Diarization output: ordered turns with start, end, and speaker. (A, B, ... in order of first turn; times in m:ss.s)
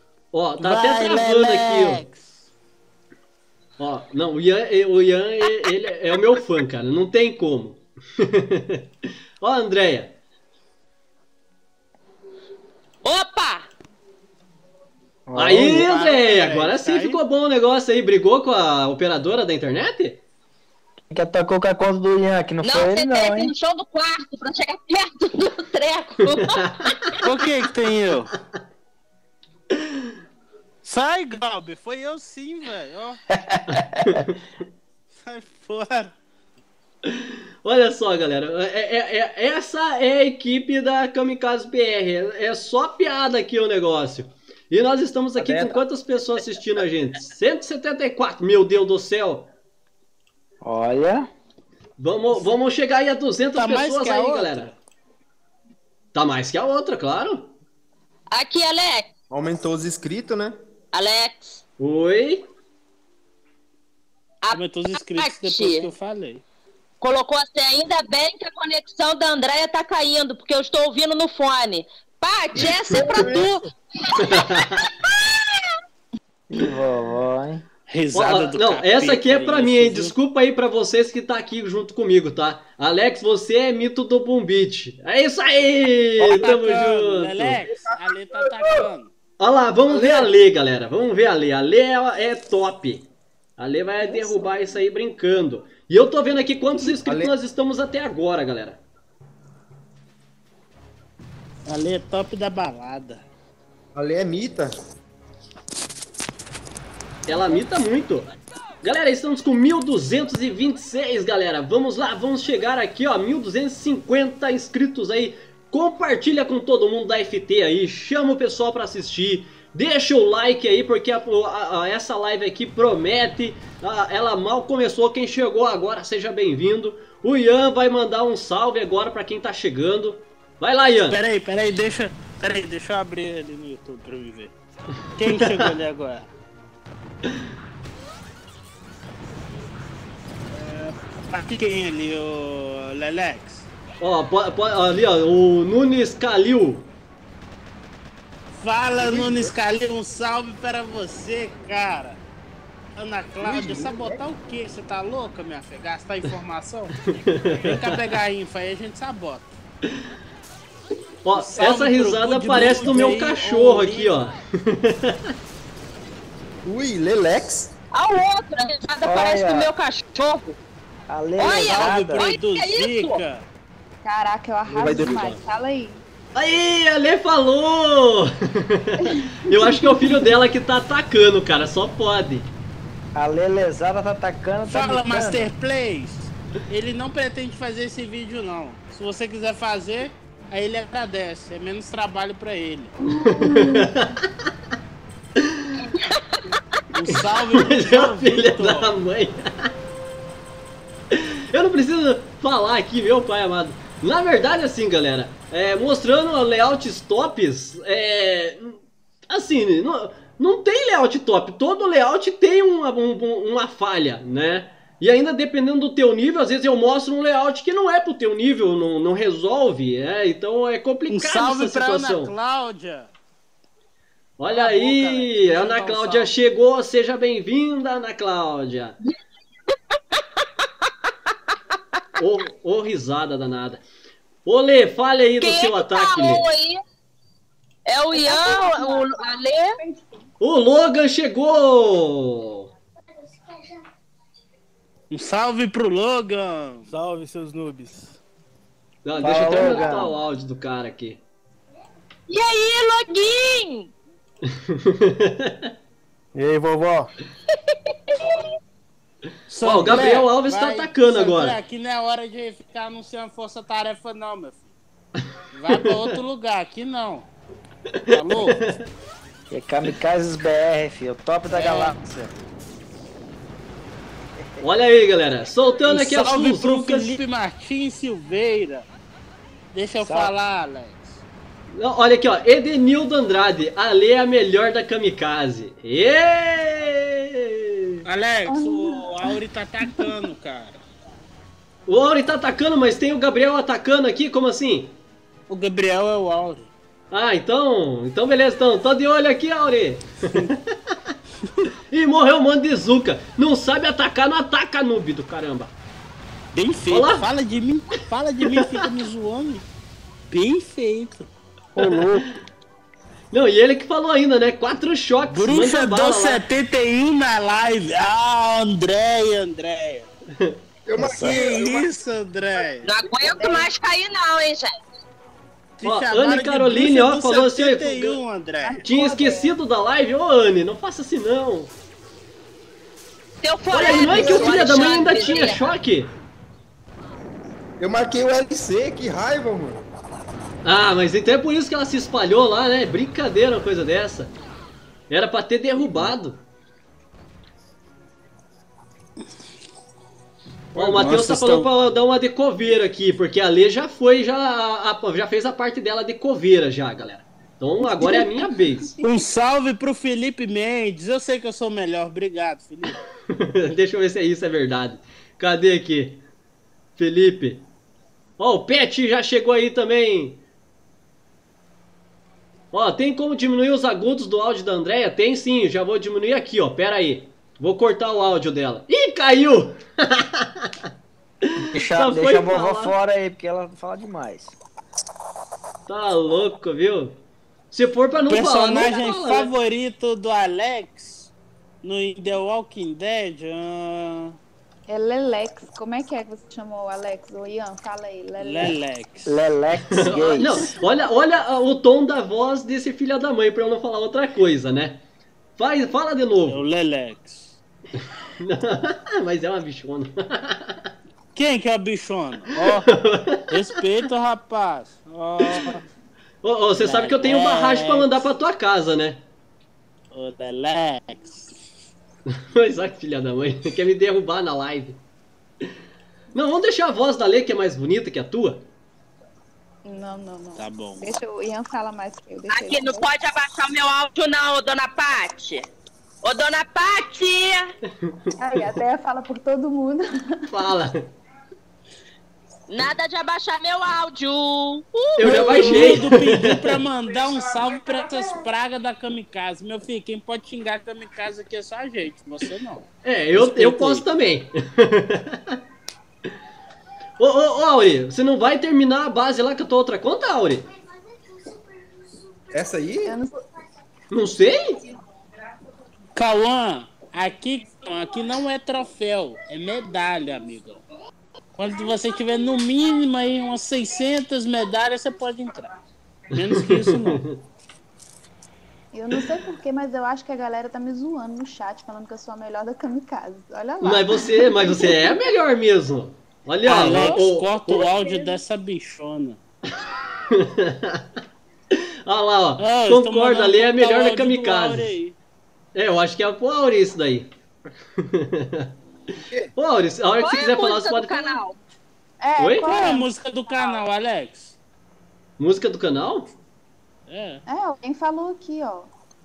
0:00.3-0:02.0 A
0:00.6-0:02.4 B
0:03.8-0:08.8 A
0:09.4-0:10.1 A
0:13.0-0:13.7 C
0:15.3-0:15.9 D
0:15.4-0:20.2 A
0:15.5-0:17.2 B
0:21.1-0:23.5 D
0:22.6-0:27.2 C
0:26.3-0:26.9 A
0:27.2-0:28.3 B
0:30.8-0:33.2 B
0:33.3-0:34.2 D
0:33.7-0:34.3 A
0:35.1-0:36.1 B
0:37.1-0:49.5 A
0:45.4-0:45.8 D
0:50.6-0:51.3 D
0:52.0-0:54.7 A
0:53.5-0:54.7 B
0:56.1-0:57.5 A
0:58.3-0:59.1 C
0:59.3-1:00.6 E
1:00.9-1:01.6 C
1:01.8-1:02.5 A
1:04.4-1:05.9 C
1:04.5-1:06.4 B
1:07.0-1:14.5 C
1:13.1-1:13.4 E
1:14.2-1:14.9 A
1:15.1-1:15.7 C
1:16.5-1:17.6 D
1:17.9-1:20.1 B
1:18.1-1:27.6 A
1:26.2-1:29.1 B
1:27.7-1:28.8 E
1:29.4-1:38.8 A
1:34.0-1:34.8 F
1:37.0-1:37.3 E
1:41.6-1:43.2 B
1:43.9-1:44.7 E
1:47.3-1:48.3 A
1:48.8-2:11.2 A
2:11.1-2:14.5 B
2:15.2-2:16.3 B
2:15.3-2:15.7 A
2:20.5-2:23.7 B
2:24.0-2:26.9 A
2:28.6-2:32.2 B
2:29.0-2:29.5 E
2:33.0-2:37.0 B
2:33.4-2:34.2 E
2:37.4-2:38.0 A
2:37.6-2:39.5 B
2:41.2-2:45.2 A
2:41.3-2:44.2 B
2:46.6-2:47.7 E
2:47.9-2:50.6 C
2:49.0-2:49.7 D
2:51.1-2:52.2 D
2:51.4-2:53.2 C
2:51.7-2:53.4 B
2:54.0-2:56.0 F
2:54.7-2:55.4 E
2:56.3-3:02.5 A
2:59.2-3:00.3 F
3:03.1-3:05.5 D
3:04.7-3:12.9 B
3:13.2-3:14.1 A
3:13.2-3:13.9 F
3:15.4-3:15.8 A
3:15.9-3:16.4 C
3:16.9-3:18.9 B
3:17.1-3:19.7 A
3:21.2-3:42.3 A
3:41.1-3:43.1 B
3:44.4-3:49.0 A
3:44.5-3:46.3 B
3:49.7-3:51.8 C
3:52.2-3:53.8 A
3:54.4-3:56.4 A
3:55.4-3:56.8 C
3:57.9-3:59.8 C
3:58.1-3:59.3 F
3:59.8-4:00.1 F
4:00.4-4:02.7 A
4:05.1-4:06.9 B
4:06.9-4:08.1 G
4:09.0-4:11.2 A
4:09.2-4:10.1 D
4:09.5-4:10.1 F
4:12.3-4:13.9 C
4:14.5-4:15.7 A
4:16.3-4:17.1 G
4:17.7-4:18.5 C
4:19.5-4:24.7 B
4:19.6-4:21.6 A
4:25.5-4:27.3 B
4:25.7-4:26.1 A
4:28.1-4:28.6 B
4:28.1-4:28.7 A
4:29.5-4:32.3 D
4:31.5-4:31.9 B
4:34.6-4:37.2 A
4:35.8-4:38.8 B
4:39.7-4:41.2 B
4:40.0-4:40.3 D
4:41.7-4:47.8 A
4:48.0-4:50.8 B
4:48.4-4:50.2 F
4:51.9-4:55.0 A
4:55.5-4:56.7 B
4:57.1-5:00.6 A
5:01.9-5:05.7 A
5:06.5-5:09.6 B
5:06.9-5:07.2 A
5:10.3-5:12.1 B
5:11.8-5:12.2 G
5:13.3-5:16.4 A
5:15.3-5:20.1 B
5:20.8-5:21.9 E
5:21.0-5:21.5 D
5:21.1-5:22.9 B
5:22.8-5:24.8 C
5:23.2-5:23.7 F
5:25.8-5:28.8 B
5:25.8-5:28.2 A
5:28.6-5:29.5 F
5:28.8-5:31.7 A
5:33.4-5:35.8 C
5:33.7-5:36.1 A
5:33.8-5:34.9 E
5:35.0-5:35.6 F
5:37.8-5:39.8 E
5:40.6-5:44.3 A
5:45.1-5:46.4 A
5:50.7-5:58.9 A
5:50.9-5:51.6 G
5:51.1-5:51.6 B
5:58.0-5:58.4 F
5:59.0-6:03.0 B
6:03.4-6:06.2 A
6:07.0-6:07.7 A
6:08.4-6:10.4 A
6:12.7-6:20.7 A
6:21.6-6:22.9 A
6:21.7-6:24.6 D
6:25.9-6:27.2 A
6:27.7-6:29.5 A
6:28.3-6:31.3 B
6:31.8-6:34.4 B
6:34.9-6:38.8 F
6:38.4-6:39.3 B
6:39.2-6:40.6 D
6:39.9-6:45.0 A
6:45.6-6:46.6 A
6:46.5-6:47.5 B
6:48.4-6:50.8 A
6:51.3-6:52.9 B
6:52.5-6:53.5 A
6:53.5-6:55.8 B
6:55.4-6:55.7 A
6:56.4-6:59.2 A
6:56.8-6:58.1 B
7:00.1-7:01.5 B
7:02.5-7:05.0 A
7:06.3-7:08.6 A
7:09.8-7:13.1 F
7:10.6-7:11.2 B
7:12.5-7:15.7 C
7:16.2-7:17.7 C
7:18.4-7:20.5 F
7:20.5-7:21.1 A
7:22.7-7:25.6 C
7:25.2-7:26.7 A
7:25.2-7:32.8 B
7:27.9-7:28.3 F
7:33.0-7:35.5 A
7:33.5-7:33.7 B
7:37.2-7:40.7 A
7:42.5-7:43.2 E
7:43.0-7:43.4 F
7:44.1-7:44.8 A
7:46.1-7:50.8 B
7:51.6-7:55.7 B
7:56.3-7:57.2 B
7:56.3-7:57.3 A
7:58.9-8:05.1 F
8:03.8-8:07.8 A
8:06.6-8:09.4 B
8:06.9-8:08.4 F
8:10.3-8:11.0 A
8:12.0-8:14.9 A
8:12.6-8:15.2 B
8:15.7-8:17.3 A
8:18.0-8:18.7 A
8:19.6-8:21.4 A
8:20.2-8:21.6 C
8:22.2-8:23.1 F
8:22.4-8:22.9 A
8:22.6-8:24.5 B
8:25.4-8:26.3 A
8:27.1-8:27.4 B
8:27.4-8:28.9 F